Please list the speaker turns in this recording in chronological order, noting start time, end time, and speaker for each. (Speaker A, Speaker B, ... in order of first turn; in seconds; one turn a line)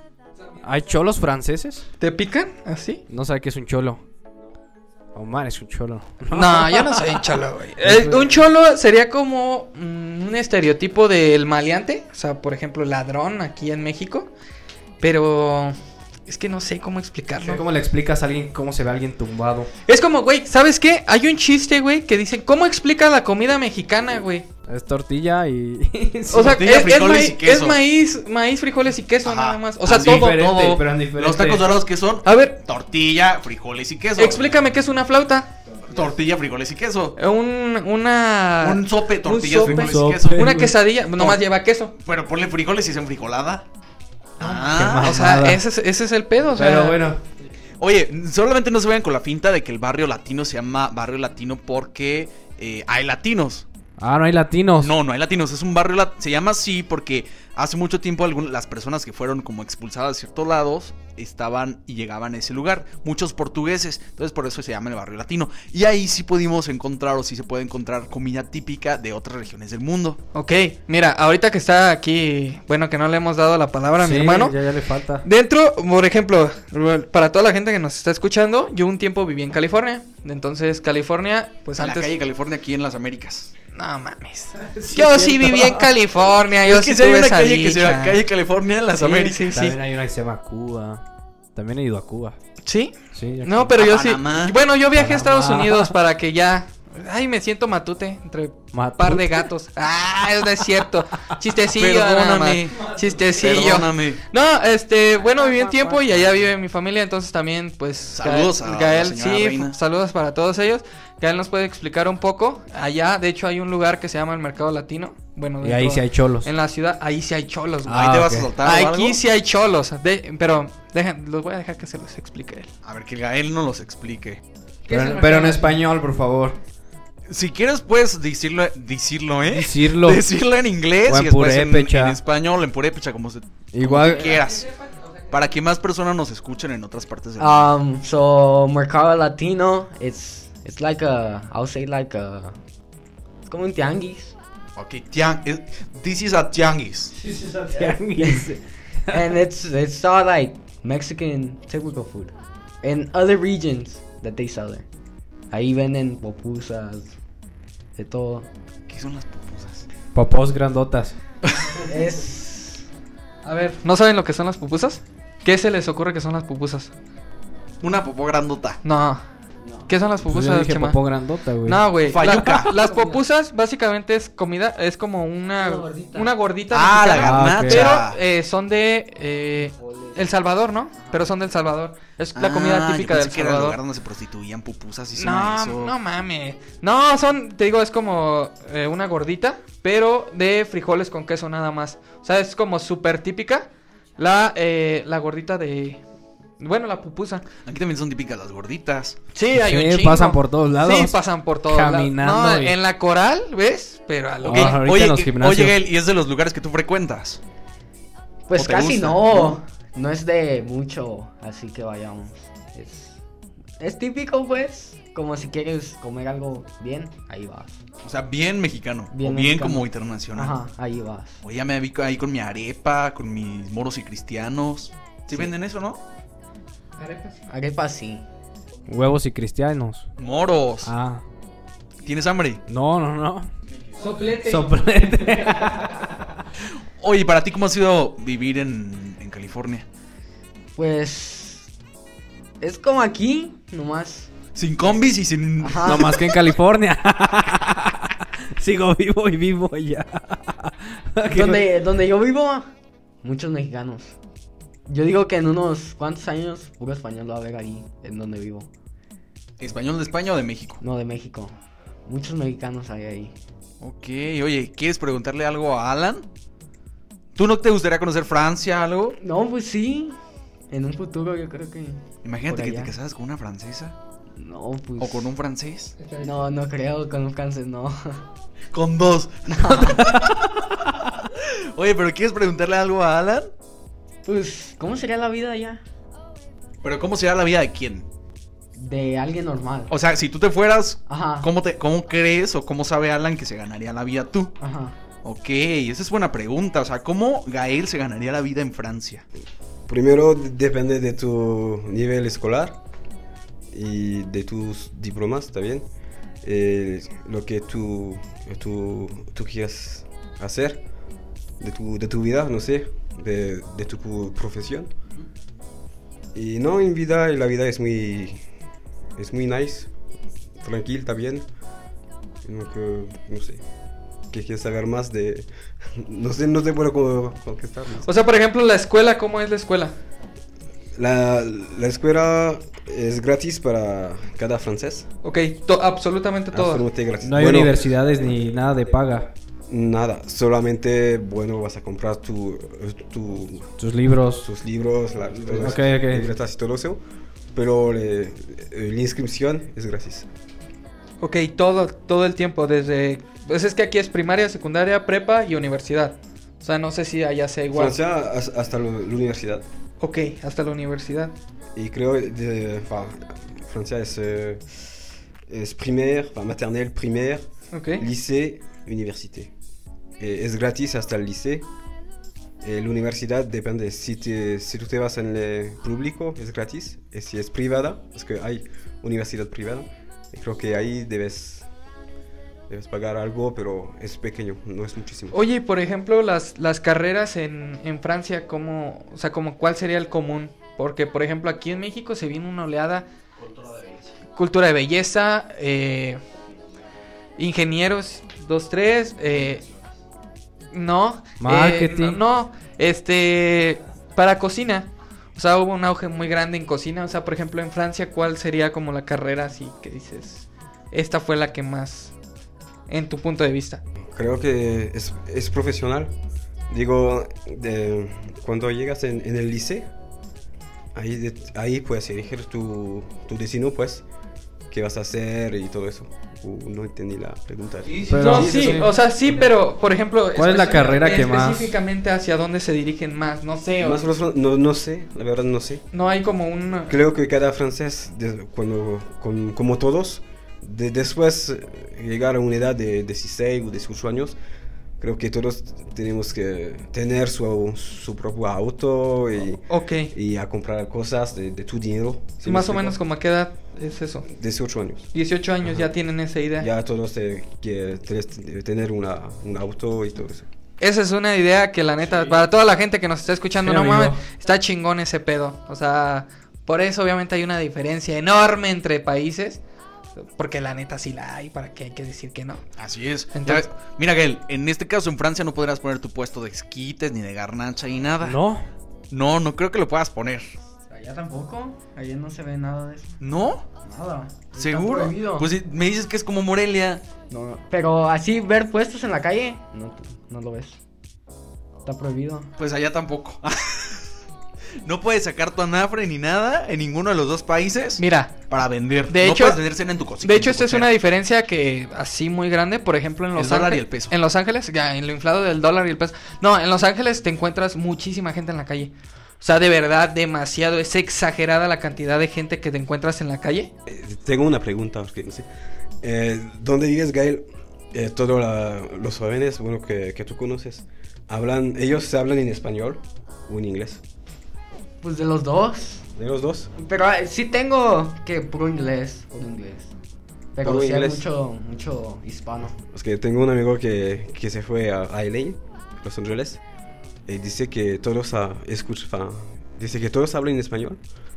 Speaker A: 0.6-1.9
Speaker B: 2.0-3.0
Speaker A: 3.1-4.0
Speaker A: 5.1-7.2
Speaker B: 6.3-14.3
Speaker A: 7.8-8.3
Speaker B: 15.0-17.6
Speaker A: 17.4-19.7
Speaker B: 19.9-24.5
Speaker A: 24.7-26.6
Speaker B: 26.3-30.6
Speaker C: 26.3-27.8
Speaker C: 29.2-34.5
Speaker A: 29.9-31.8
Speaker B: 32.2-32.6
Speaker B: 34.2-35.5
Speaker C: 35.8-37.2
Speaker B: 37.2-41.9
Speaker C: 38.6-40.6
Speaker A: 39.6-40.7
Speaker C: 41.9-43.6
Speaker C: 44.4-45.3
Speaker B: 44.4-47.0
Speaker A: 44.7-45.6
Speaker A: 46.5-47.2
Speaker C: 47.8-53.6
Speaker A: 54.0-54.9
Speaker C: 54.8-70.2
Speaker B: 70.3-74.5
Speaker A: 74.0-75.2
Speaker B: 75.2-82.1
Speaker C: 81.8-83.5
Speaker B: 83.7-88.2
Speaker A: 84.6-85.8
Speaker C: 86.6-89.6
Speaker B: 89.0-89.8
Speaker A: 89.5-91.0
Speaker A: 91.5-92.4
Speaker B: 92.6-122.7
Speaker A: 93.1-93.7
Speaker C: 93.8-94.6
Speaker A: 94.9-95.9
Speaker A: 98.7-99.4
Speaker C: 101.8-104.2
Speaker D: 105.3-106.0
Speaker C: 108.1-109.8
Speaker A: 115.6-116.5
Speaker A: 117.9-118.5
Speaker C: 117.9-119.2
Speaker C: 122.8-124.4
Speaker B: 124.9-125.8
Speaker A: 124.9-126.6
Speaker C: 127.3-134.7
Speaker A: 129.5-130.2
Speaker A: 131.1-132.2
Speaker A: 133.7-134.4
Speaker C: 135.3-137.7
Speaker D: 137.4-142.6
Speaker D: 143.4-144.3
Speaker C: 144.8-147.1
Speaker D: 147.2-148.5
Speaker A: 147.4-149.3
Speaker D: 149.1-154.8
Speaker D: 155.5-157.1
Speaker D: 157.9-158.5
Speaker C: 158.9-159.8
Speaker A: 160.1-161.2
Speaker C: 161.5-161.8
Speaker D: 161.8-162.8
Speaker B: 163.4-166.9
Speaker C: 167.8-168.8
Speaker B: 168.8-169.2
Speaker D: 169.6-169.9
Speaker B: 169.9-171.0
Speaker A: 170.2-172.5
Speaker B: 171.6-183.8
Speaker C: 172.1-172.7
Speaker D: 172.8-173.2
Speaker D: 175.6-176.3
Speaker C: 176.7-178.2
Speaker A: 177.1-178.0
Speaker D: 179.8-180.2
Speaker C: 182.3-185.9
Speaker B: 185.2-196.0
Speaker B: 196.6-197.4
Speaker C: 197.6-199.2
Speaker B: 199.3-204.8
Speaker A: 199.5-202.7
Speaker A: 204.4-205.8
Speaker C: 204.4-207.4
Speaker D: 208.5-213.2
Speaker C: 208.5-209.6
Speaker D: 213.8-217.8
Speaker C: 218.0-220.6
Speaker D: 219.1-221.4
Speaker C: 221.4-226.0
Speaker B: 227.0-227.4
Speaker D: 227.5-228.2
Speaker A: 228.9-230.1
Speaker C: 230.2-230.9
Speaker A: 230.8-231.2
Speaker C: 232.0-232.6
Speaker A: 232.7-233.5
Speaker B: 234.0-234.7
Speaker A: 234.3-236.3
Speaker C: 237.0-239.8
Speaker D: 240.8-241.7
Speaker D: 242.6-244.3
Speaker C: 244.5-246.2
Speaker D: 245.6-246.2
Speaker A: 245.8-251.6
Speaker D: 251.3-252.7
Speaker D: 253.2-254.2
Speaker D: 254.9-258.7
Speaker C: 259.6-260.8
Speaker D: 260.8-261.5
Speaker D: 262.1-263.3
Speaker C: 263.8-266.3
Speaker C: 267.3-269.2
Speaker D: 269.2-270.2
Speaker D: 270.7-272.9
Speaker C: 272.2-274.0
Speaker D: 274.4-275.3
Speaker C: 275.0-275.9
Speaker B: 276.0-276.4
Speaker D: 276.2-278.2
Speaker C: 278.7-283.5
Speaker D: 279.5-280.2
Speaker D: 284.2-285.8
Speaker C: 286.8-288.1
Speaker D: 288.8-289.9
Speaker C: 289.9-294.6
Speaker D: 291.1-291.5
Speaker D: 294.6-294.9
Speaker C: 295.2-299.2
Speaker E: 299.9-302.8
Speaker E: 303.7-305.9
Speaker E: 306.4-310.8
Speaker E: 311.6-314.9
Speaker E: 316.3-318.4
Speaker E: 319.1-319.9
Speaker E: 320.6-321.5
Speaker E: 322.4-323.6
Speaker E: 324.3-328.1
Speaker B: 328.0-329.9
Speaker E: 330.9-335.1
Speaker B: 335.2-336.9
Speaker E: 336.5-337.8
Speaker A: 337.2-339.3
Speaker E: 339.7-343.8
Speaker A: 343.8-344.5
Speaker E: 344.4-347.0
Speaker A: 345.5-346.3
Speaker E: 347.5-350.3
Speaker B: 351.2-358.0
Speaker E: 357.7-359.6
Speaker B: 360.0-361.3
Speaker E: 361.7-369.5
Speaker B: 367.7-368.0
Speaker E: 370.2-371.7
Speaker E: 372.6-381.7
Speaker E: 382.7-385.4
Speaker B: 385.3-393.1
Speaker C: 393.5-394.0
Speaker B: 394.3-396.2
Speaker B: 397.4-399.6
Speaker B: 400.7-412.1
Speaker A: 401.4-402.2
Speaker B: 412.9-413.8
Speaker E: 414.0-416.1
Speaker E: 416.7-419.9
Speaker E: 420.9-424.0
Speaker E: 424.7-428.8
Speaker A: 428.1-428.9
Speaker B: 428.1-434.0
Speaker A: 430.3-431.7
Speaker E: 433.8-435.8
Speaker B: 435.9-437.0
Speaker E: 436.9-444.4
Speaker E: 445.0-453.0
Speaker B: 449.7-450.1
Speaker B: 452.4-454.3
Speaker E: 454.3-455.1
Speaker B: 455.1-456.7
Speaker E: 455.6-455.9
Speaker E: 456.6-460.5
Speaker B: 460.8-469.6
Speaker A: 463.6-464.2
Speaker B: 470.2-472.6
Speaker C: 472.8-478.4
Speaker B: 473.3-473.6
Speaker A: 478.2-478.6
Speaker C: 479.1-480.5
Speaker D: 480.9-483.1
Speaker C: 483.2-483.6
Speaker D: 483.8-485.5
Speaker C: 484.5-487.0
Speaker D: 487.3-490.8
Speaker D: 491.8-492.5
Speaker C: 492.6-494.0
Speaker C: 494.8-500.9
Speaker B: 498.0-498.4
Speaker B: 499.1-499.6
Speaker B: 500.2-513.7
Speaker C: 503.4-504.1
Speaker E: 513.9-515.5
Speaker E: 516.0-524.0
Speaker D: 525.0-526.0
Speaker E: 526.1-526.7
Speaker D: 526.8-529.9
Speaker D: 530.5-532.8
Speaker E: 530.6-531.2
Speaker E: 532.9-536.6
Speaker E: 537.3-541.0